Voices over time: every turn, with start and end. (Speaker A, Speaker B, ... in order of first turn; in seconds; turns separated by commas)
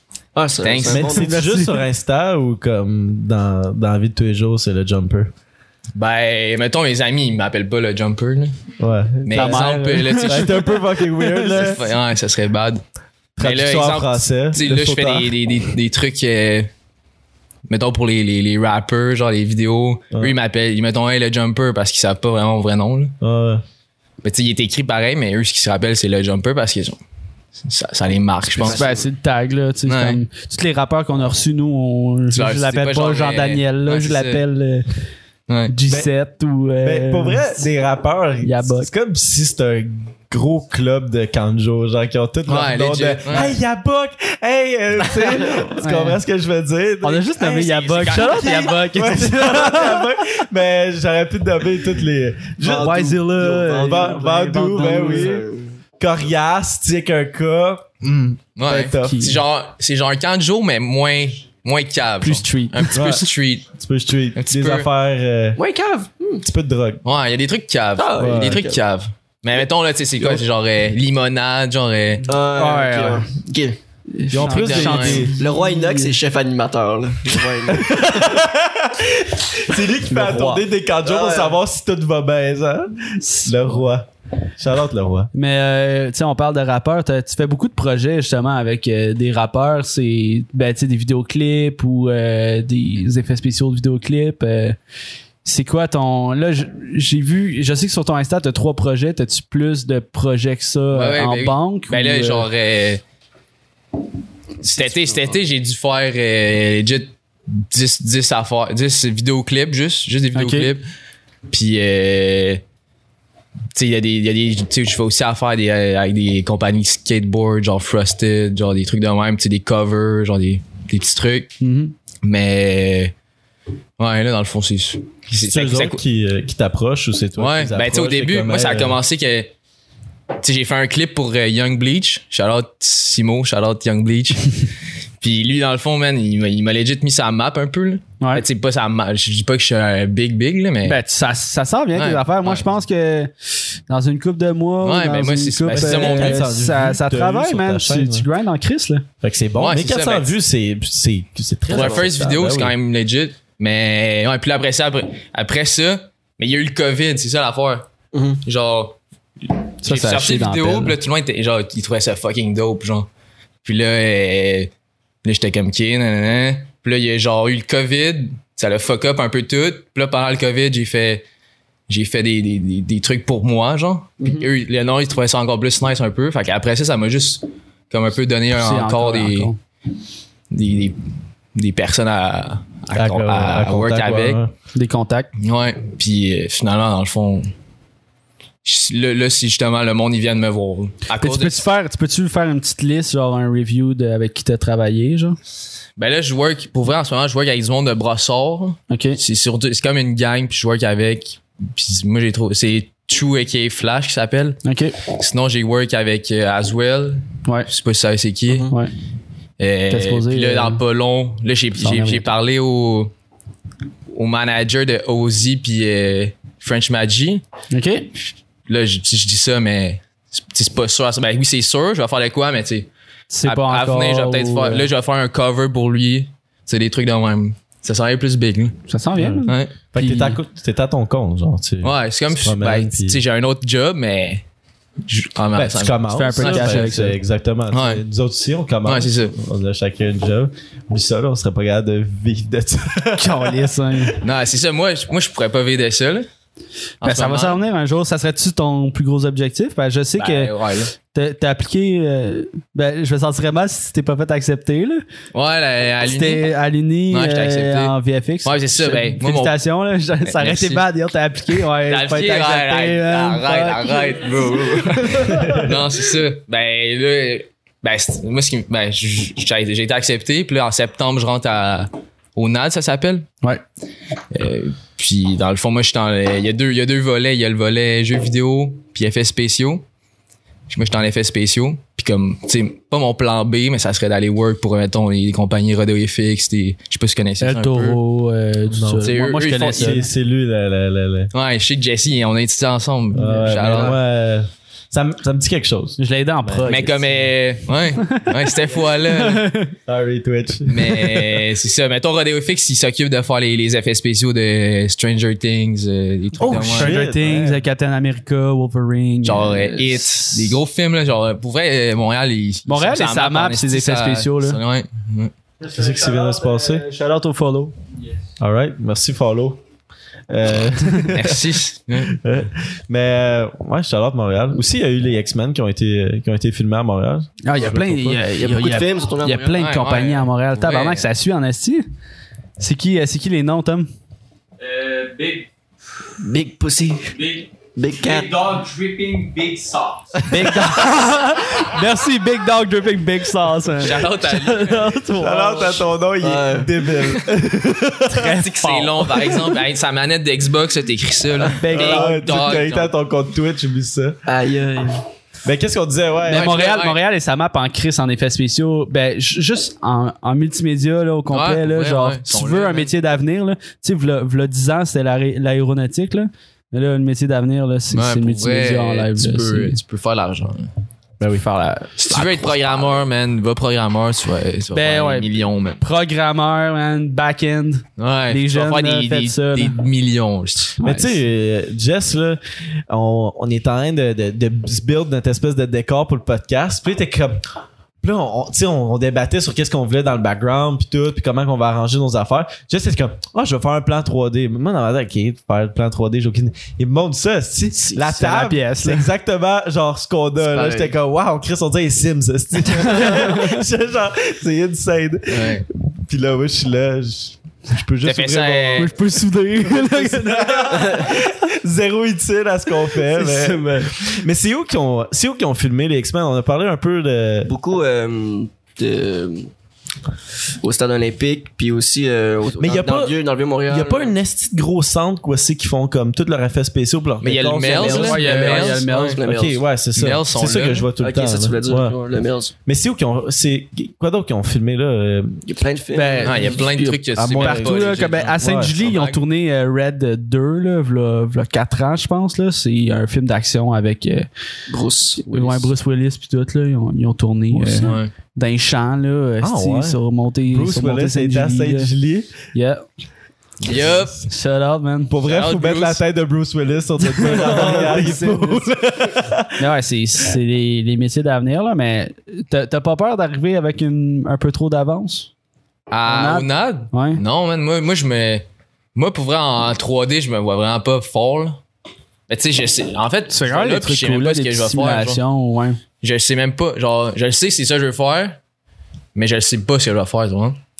Speaker A: 0.3-1.2, Speaker B: 0.6-1.1, Speaker C: 0.8-5.3, Speaker D: 1.1-1.8, Speaker B: 6.0-8.6, Speaker C: 8.8-11.8, Speaker B: 9.2-10.8, Speaker D: 9.3-11.8, Speaker B: 11.5-12.8, Speaker C: 13.4-15.3, Speaker B: 13.4-16.7, Speaker B: 17.7-23.1, Speaker C: 23.2-23.6, Speaker B: 24.2-27.0, Speaker B: 27.6-28.8, Speaker A: 28.6-29.0, Speaker D: 28.6-34.9, Speaker B: 29.9-30.2, Speaker B: 32.3-34.4, Speaker B: 35.5-35.7, Speaker D: 35.7-37.6, Speaker C: 36.8-53.2, Speaker D: 38.4-38.9, Speaker B: 42.5-43.5, Speaker D: 45.0-46.2, Speaker D: 47.0-50.1, Speaker B: 47.9-48.7, Speaker A: 52.6-55.8, Speaker D: 52.6-55.4, Speaker C: 53.8-55.4, Speaker C: 56.0-59.3, Speaker B: 58.6-63.7, Speaker D: 59.0-59.4, Speaker D: 62.2-63.3, Speaker C: 62.9-65.6, Speaker B: 64.3-64.9, Speaker A: 65.5-66.4, Speaker C: 66.4-67.0, Speaker B: 67.0-72.2, Speaker A: 68.0-68.8, Speaker C: 68.2-68.6, Speaker A: 72.2-73.8, Speaker D: 72.5-73.3, Speaker D: 74.1-76.1, Speaker C: 74.3-75.3, Speaker B: 74.3-75.3, Speaker A: 75.4-78.4, Speaker C: 77.7-85.3, Speaker D: 80.1-80.6, Speaker A: 81.0-81.6, Speaker D: 83.2-83.6, Speaker D: 85.3-94.8, Speaker D: 95.4-102.5, Speaker B: 100.9-103.0, Speaker B: 104.6-110.8, Speaker D: 110.3-110.7, Speaker B: 111.5-112.6, Speaker B: 113.7-121.5, Speaker D: 121.6-121.9, Speaker B: 122.2-123.1, Speaker B: 124.0-126.0, Speaker C: 125.3-129.0, Speaker B: 127.4-129.5, Speaker B: 130.4-134.6, Speaker B: 135.2-141.0, Speaker D: 140.8-143.3, Speaker B: 141.9-142.7, Speaker D: 143.9-149.0, Speaker B: 144.8-146.4, Speaker C: 145.7-148.3, Speaker C: 149.2-152.7, Speaker B: 149.6-150.3, Speaker B: 151.7-157.9, Speaker A: 151.7-152.0, Speaker A: 158.1-158.4, Speaker B: 158.4-159.0, Speaker B: 159.8-163.1, Speaker D: 159.8-161.0, Speaker B: 163.6-164.7, Speaker B: 165.2-171.2, Speaker B: 171.9-179.5, Speaker A: 174.2-174.5, Speaker D: 178.5-179.6, Speaker B: 180.5-181.0, Speaker B: 181.5-184.4, Speaker C: 182.9-184.5, Speaker D: 184.7-185.3, Speaker B: 185.4-187.5, Speaker B: 188.6-191.6, Speaker D: 191.2-195.3, Speaker B: 196.0-208.7, Speaker D: 198.9-199.2, Speaker D: 204.6-205.0, Speaker B: 209.6-213.1, Speaker D: 209.9-210.8, Speaker D: 211.8-212.3, Speaker B: 214.1-217.4, Speaker D: 217.7-218.1, Speaker B: 218.7-222.9, Speaker D: 223.3-224.9, Speaker B: 223.4-228.8, Speaker D: 228.9-230.4, Speaker C: 229.2-233.2, Speaker B: 229.4-229.7, Speaker B: 231.8-234.4, Speaker B: 235.1-237.0, Speaker C: 235.5-244.0, Speaker D: 236.1-237.2, Speaker B: 237.7-238.0, Speaker B: 238.8-239.3, Speaker D: 243.1-244.2, Speaker B: 244.2-246.3, Speaker B: 247.0-247.6, Speaker D: 247.0-250.5, Speaker B: 250.2-250.9, Speaker D: 251.1-255.0, Speaker B: 255.3-256.5, Speaker D: 256.0-265.7, Speaker B: 257.1-259.6, Speaker B: 260.2-260.9, Speaker B: 261.6-273.3, Speaker B: 274.3-279.8, Speaker B: 280.7-288.0, Speaker D: 287.4-290.1, Speaker C: 288.7-289.1, Speaker B: 289.0-290.0, Speaker C: 289.7-291.3, Speaker B: 291.3-294.0, Speaker C: 293.1-296.7, Speaker D: 293.1-293.9, Speaker D: 296.0-297.1, Speaker B: 296.7-299.5, Speaker D: 298.0-299.7, Speaker C: 299.9-301.4, Speaker B: 300.7-306.9, Speaker C: 306.4-307.6, Speaker D: 306.7-310.6, Speaker B: 309.2-315.3, Speaker D: 312.7-314.6, Speaker D: 315.6-317.7, Speaker C: 315.7-316.8, Speaker C: 318.4-319.6, Speaker C: 320.3-328.2, Speaker B: 321.1-322.1, Speaker D: 327.4-331.8, Speaker A: 328.4-329.6, Speaker B: 329.5-331.0, Speaker D: 332.6-333.9, Speaker E: 334.6-335.5, Speaker A: 336.2-337.1, Speaker E: 337.1-340.5, Speaker A: 337.8-338.3, Speaker D: 340.3-345.9, Speaker B: 343.8-344.9, Speaker C: 345.2-348.3, Speaker A: 346.2-346.9, Speaker D: 348.1-349.5, Speaker B: 348.3-352.9, Speaker D: 351.5-352.4, Speaker C: 351.7-354.2, Speaker A: 354.2-355.0, Speaker C: 355.4-356.6, Speaker B: 356.3-357.0, Speaker D: 356.3-369.8, Speaker B: 361.3-362.9, Speaker B: 367.9-370.7, Speaker C: 371.2-371.4, Speaker D: 371.4-372.6, Speaker B: 372.0-375.8, Speaker D: 374.7-379.8, Speaker B: 378.0-380.8, Speaker D: 380.8-381.2, Speaker C: 380.8-387.4, Speaker C: 388.0-408.9, Speaker D: 398.0-399.1, Speaker A: 400.4-400.9, Speaker D: 402.8-403.6, Speaker B: 405.3-405.6, Speaker B: 408.0-408.9, Speaker D: 408.8-411.0, Speaker C: 409.6-417.5, Speaker A: 410.8-411.1, Speaker A: 413.3-413.6, Speaker A: 417.4-419.5, Speaker A: 420.6-424.1, Speaker C: 422.6-428.2, Speaker B: 427.2-429.2, Speaker A: 427.6-429.6, Speaker D: 427.8-429.2, Speaker C: 429.2-432.0, Speaker B: 429.9-430.9, Speaker A: 431.0-432.5, Speaker C: 432.6-435.4, Speaker A: 435.4-437.0, Speaker D: 435.9-436.7, Speaker B: 436.2-439.2, Speaker C: 437.1-438.8, Speaker D: 437.4-444.3, Speaker A: 444.7-445.7, Speaker D: 445.2-451.9, Speaker B: 447.8-448.1, Speaker C: 449.4-452.4, Speaker D: 452.5-452.8, Speaker B: 453.6-454.2, Speaker C: 453.7-454.2, Speaker D: 454.2-455.1, Speaker C: 455.1-459.6, Speaker B: 455.2-456.0, Speaker D: 457.0-458.7, Speaker D: 459.6-465.3, Speaker B: 465.9-471.6, Speaker D: 466.1-467.2, Speaker B: 472.3-475.2, Speaker D: 473.3-475.8, Speaker B: 476.0-478.4, Speaker B: 479.1-480.6